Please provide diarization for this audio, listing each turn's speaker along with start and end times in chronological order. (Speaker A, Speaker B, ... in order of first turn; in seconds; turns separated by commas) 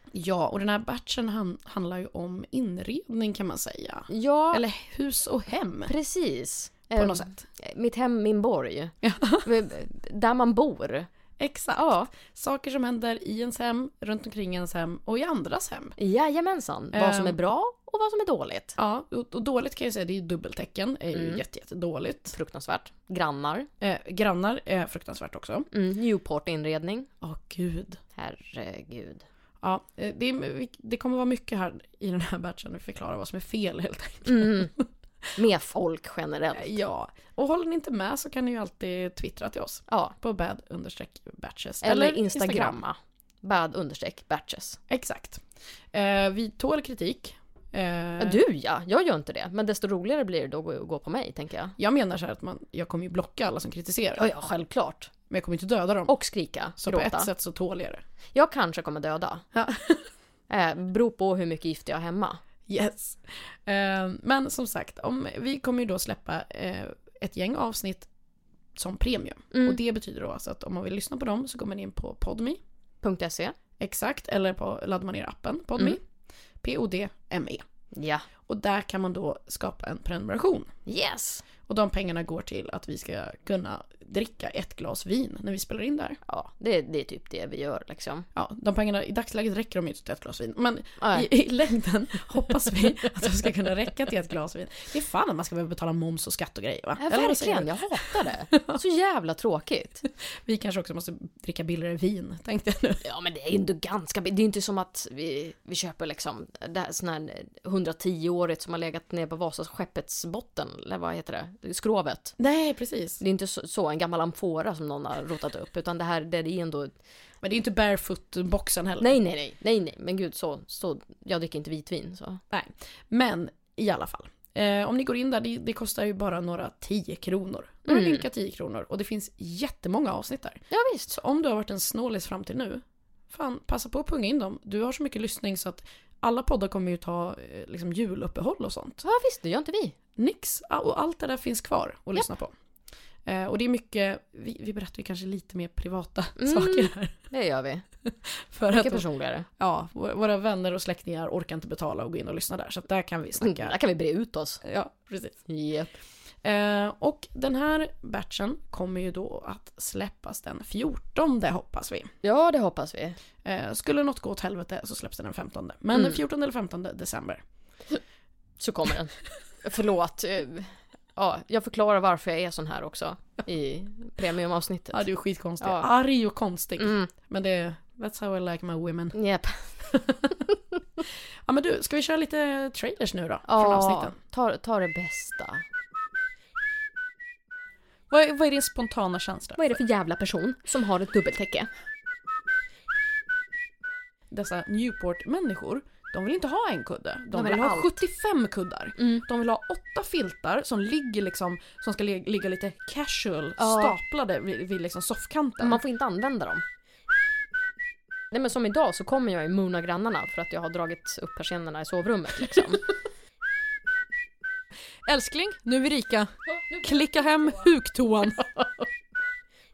Speaker A: 0.1-5.9, Speaker B: 4.1-4.6, Speaker B: 5.9-11.1, Speaker A: 6.9-7.4, Speaker A: 9.0-9.5, Speaker A: 11.4-15.9, Speaker B: 11.8-12.1, Speaker B: 16.0-18.8, Speaker A: 16.9-17.4, Speaker A: 18.8-22.4, Speaker B: 21.1-21.4, Speaker B: 22.3-23.7, Speaker A: 23.8-25.7, Speaker B: 25.7-27.1, Speaker A: 27.2-28.0, Speaker B: 28.1-29.2, Speaker A: 29.6-34.8, Speaker B: 34.2-34.7, Speaker B: 35.4-36.8, Speaker A: 36.5-42.8, Speaker B: 39.9-40.1, Speaker B: 41.8-44.8, Speaker A: 44.9-48.4, Speaker B: 48.2-51.8, Speaker A: 51.8-54.2, Speaker B: 54.1-55.1, Speaker A: 55.3-56.1, Speaker B: 56.1-57.3, Speaker A: 56.8-58.0, Speaker B: 58.3-59.4, Speaker A: 59.5-60.0, Speaker B: 60.5-62.4, Speaker A: 62.7-68.1, Speaker A: 68.8-72.6, Speaker B: 69.5-69.8, Speaker B: 73.0-73.5, Speaker A: 73.8-76.0, Speaker A: 76.6-77.6, Speaker B: 77.9-78.2, Speaker A: 78.5-80.7, Speaker B: 80.8-81.4, Speaker A: 81.7-86.2, Speaker B: 86.3-88.2, Speaker A: 88.3-98.8, Speaker B: 91.0-91.3, Speaker B: 97.0-100.0, Speaker A: 100.4-103.0, Speaker B: 103.0-112.3, Speaker A: 112.4-113.2, Speaker B: 113.2-116.9, Speaker A: 117.4-119.1, Speaker B: 119.0-122.4, Speaker A: 122.5-139.0, Speaker B: 127.9-128.2, Speaker B: 130.7-131.2, Speaker B: 139.0-139.9, Speaker A: 140.2-142.5, Speaker A: 143.2-147.1, Speaker B: 146.4-147.8, Speaker A: 148.3-149.1, Speaker B: 148.7-149.5, Speaker A: 149.6-153.8, Speaker B: 153.4-154.6, Speaker A: 154.6-155.4, Speaker B: 155.5-155.9, Speaker A: 156.4-162.1, Speaker B: 162.2-163.2, Speaker A: 163.4-167.4, Speaker B: 165.9-166.2, Speaker B: 168.6-175.1, Speaker A: 174.9-179.2, Speaker B: 175.6-175.9, Speaker B: 176.8-177.1, Speaker B: 179.1-179.8, Speaker A: 179.8-180.3, Speaker A: 181.4-184.1, Speaker B: 183.4-185.6, Speaker A: 188.1-189.8, Speaker B: 189.6-191.7, Speaker A: 194.3-205.8, Speaker B: 197.3-198.0, Speaker B: 199.0-199.2, Speaker B: 203.6-203.9, Speaker B: 205.6-206.6, Speaker B: 208.3-212.9, Speaker A: 215.1-218.6, Speaker B: 216.6-217.4